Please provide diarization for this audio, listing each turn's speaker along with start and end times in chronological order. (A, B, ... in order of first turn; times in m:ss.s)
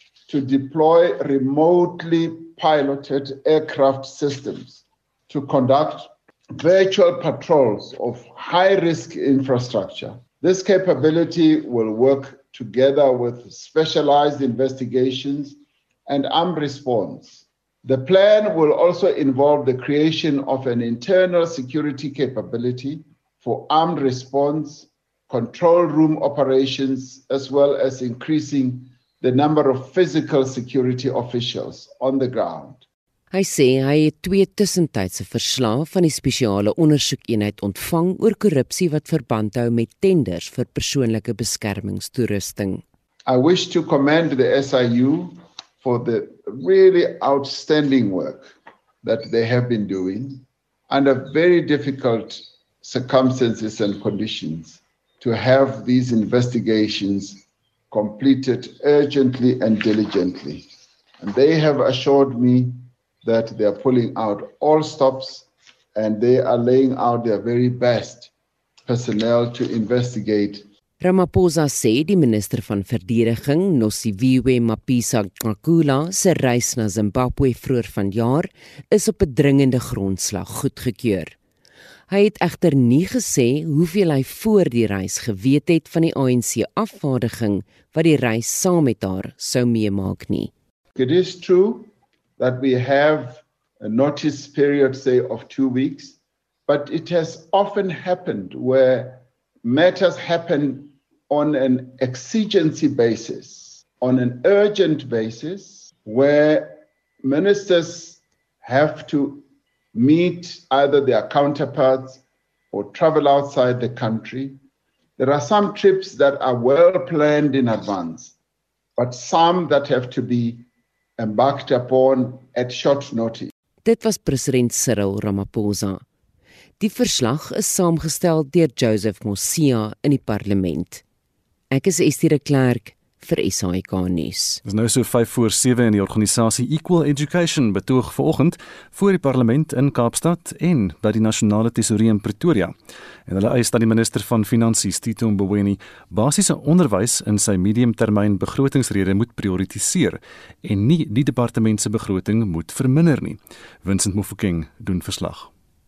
0:00.3-0:32.8 A
0:33.3-0:42.8 B
0:43.2-1:00.7 A
1:01.2-1:08.3 A
1:08.9-1:10.6 A
1:11.0-1:21.3 B
1:22.1-1:30.5 B
1:31.0-1:36.2 A
1:36.7-1:54.6 A
1:55.2-1:58.3 A
1:59.0-2:00.6 A
2:01.2-2:03.5 A
2:03.8-2:06.0 B
2:06.8-2:11.0 B
2:11.7-2:14.6 B
2:14.6-2:22.7 C
2:23.3-2:35.5 C